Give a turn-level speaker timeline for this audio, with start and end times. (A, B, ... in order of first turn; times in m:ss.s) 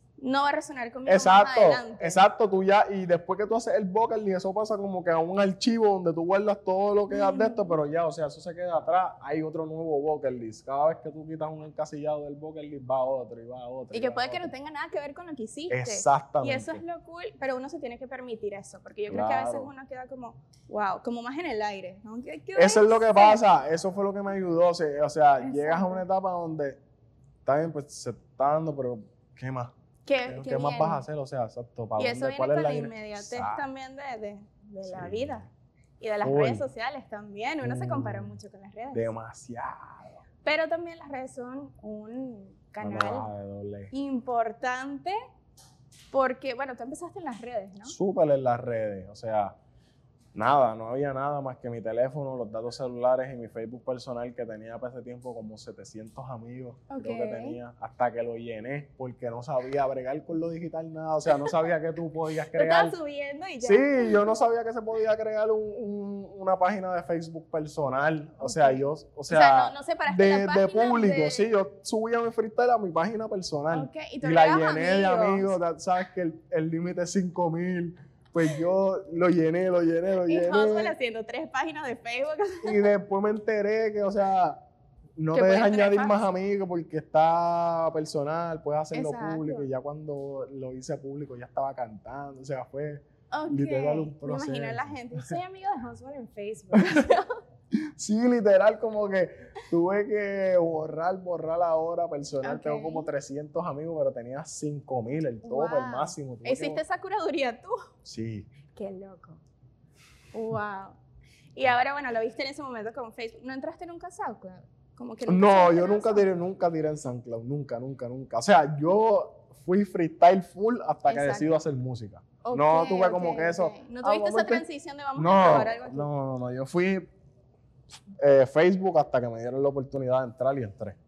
0:00.2-0:02.3 A
0:01.1-0:14.5 B
0:07.1-0:07.8 A
0:13.9-0:23.4 A
0:15.7-0:16.8 B
0:19.1-0:19.7 B
0:22.6-0:26.8 B
0:25.4-0:26.0 A
0:27.4-0:29.7 B
0:30.0-0:31.0 A
0:30.2-0:33.7 B
0:32.0-0:35.5 A
0:34.8-0:35.5 B
0:36.0-0:39.1 A
0:36.2-0:36.7 B
0:37.6-0:38.4 B
0:38.9-0:40.2 B
0:40.4-0:43.3 A
0:42.8-0:43.9 B
0:43.9-0:45.2 A
0:46.1-0:48.0 A
0:47.8-0:49.6 B
0:50.3-1:03.0 B
0:56.9-0:57.6 A
1:02.5-1:04.4 A
1:03.6-1:21.0 B
1:08.4-1:11.5 A
1:13.7-1:15.6 A
1:20.2-1:22.9 A
1:22.6-1:24.6 B
1:25.2-1:35.4 B
1:25.3-1:26.3 A
1:28.9-1:29.7 A
1:33.3-1:37.4 A
1:36.7-1:37.0 B
1:38.0-1:46.8 B
1:42.4-1:43.1 A
1:45.4-1:47.8 A
1:48.0-1:48.5 B
1:48.7-1:49.4 A
1:50.3-1:51.0 A
1:51.6-1:56.3 A
1:55.3-2:04.6 B
2:01.0-2:01.5 A
2:02.4-2:06.1 A
2:05.2-2:07.1 B
2:08.2-2:11.0 B